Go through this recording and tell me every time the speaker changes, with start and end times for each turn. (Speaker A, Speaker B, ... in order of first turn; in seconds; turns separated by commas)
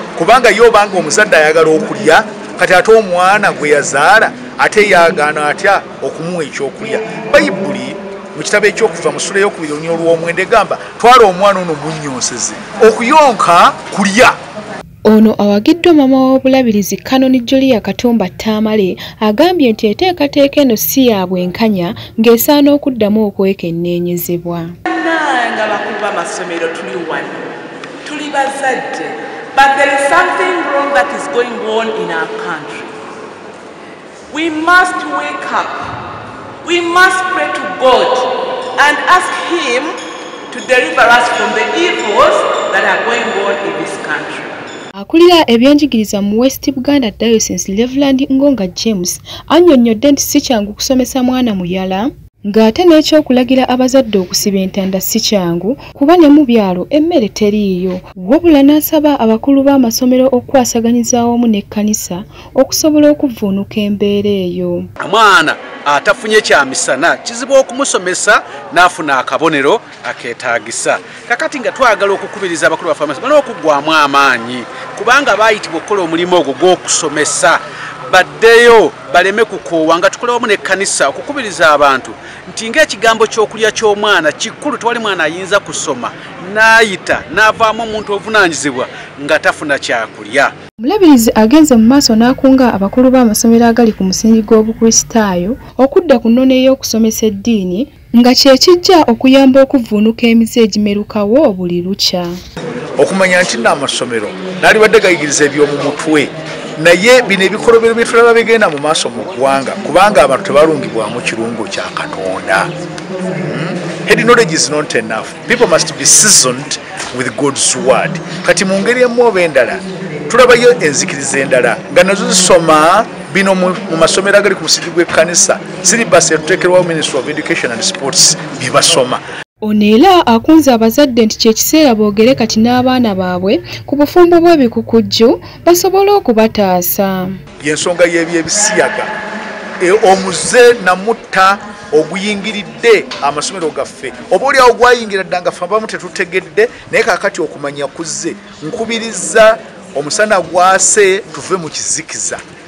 Speaker A: 0.1-14.3, Speaker B: 15.1-24.7, Speaker C: 24.9-27.5, Speaker C: 28.0-32.9, Speaker C: 34.3-35.8, Speaker C: 36.6-39.9, Speaker C: 40.5-44.5, Speaker B: 45.0-64.9, Speaker D: 65.0-90.5, Speaker B: 90.8-102.3, Speaker A: 103.0-112.7, Speaker A: 113.4-129.2, Speaker B: 129.6-137.4, Speaker A: 137.6-139.1, Speaker A: 139.8-152.4